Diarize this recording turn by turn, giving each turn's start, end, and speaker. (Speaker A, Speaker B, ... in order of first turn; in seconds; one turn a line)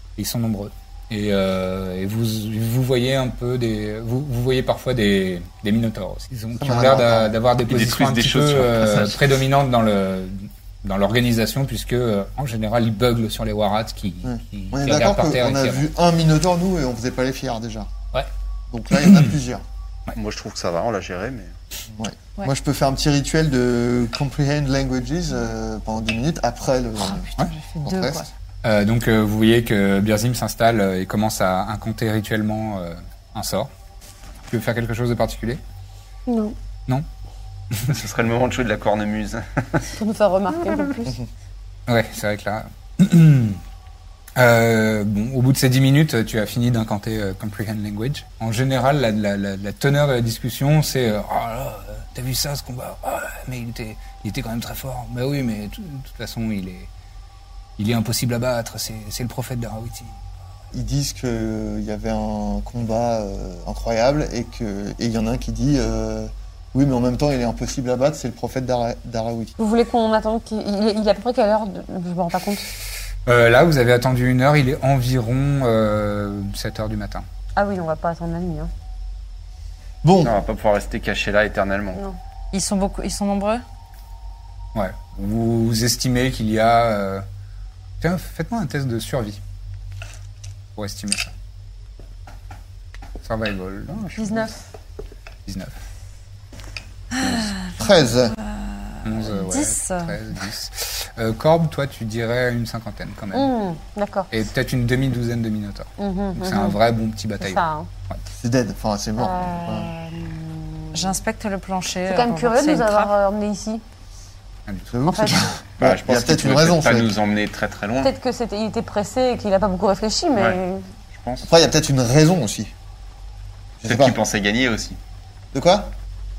Speaker A: 0.2-15.8
Speaker B: 6.6-7.3
Speaker C: 7.7-9.3
Speaker B: 14.2-17.9
Speaker B: 18.7-19.6
Speaker A: 18.9-19.3
Speaker C: 20.1-21.6
Speaker B: 21.9-27.3
Speaker D: 27.0-28.3
Speaker B: 27.8-28.2
Speaker A: 28.6-33.7
Speaker A: 34.5-35.6
Speaker E: 36.3-36.5
Speaker A: 37.7-38.0
Speaker C: 37.9-39.9
Speaker E: 40.0-41.2
Speaker A: 41.9-43.6
Speaker A: 44.4-56.9
Speaker A: 57.8-60.2
Speaker B: 60.7-69.5
Speaker E: 69.6-72.7
Speaker A: 73.2-77.2
Speaker E: 77.5-78.7
Speaker B: 80.0-80.4
Speaker C: 80.2-82.0
Speaker D: 82.5-83.6
Speaker A: 84.7-87.2
Speaker A: 88.0-89.4
Speaker A: 90.8-91.3
Speaker A: 93.2-94.5
Speaker E: 94.2-94.6
Speaker A: 95.5-95.7
Speaker D: 97.1-100.2
Speaker B: 97.8-98.3
Speaker A: 99.0-103.5
Speaker E: 103.3-104.3
Speaker A: 104.3-108.2
Speaker E: 106.0-106.8
Speaker E: 107.4-107.9
Speaker B: 108.4-109.9
Speaker E: 109.2-111.2
Speaker D: 110.9-113.1
Speaker E: 112.1-113.8
Speaker A: 114.7-114.9
Speaker B: 114.9-117.1
Speaker E: 115.1-115.5
Speaker C: 115.8-118.1
Speaker E: 118.0-120.9
Speaker C: 121.1-121.5
Speaker B: 121.5-122.7
Speaker B: 123.8-124.2
Speaker C: 123.8-125.0
Speaker B: 125.5-125.9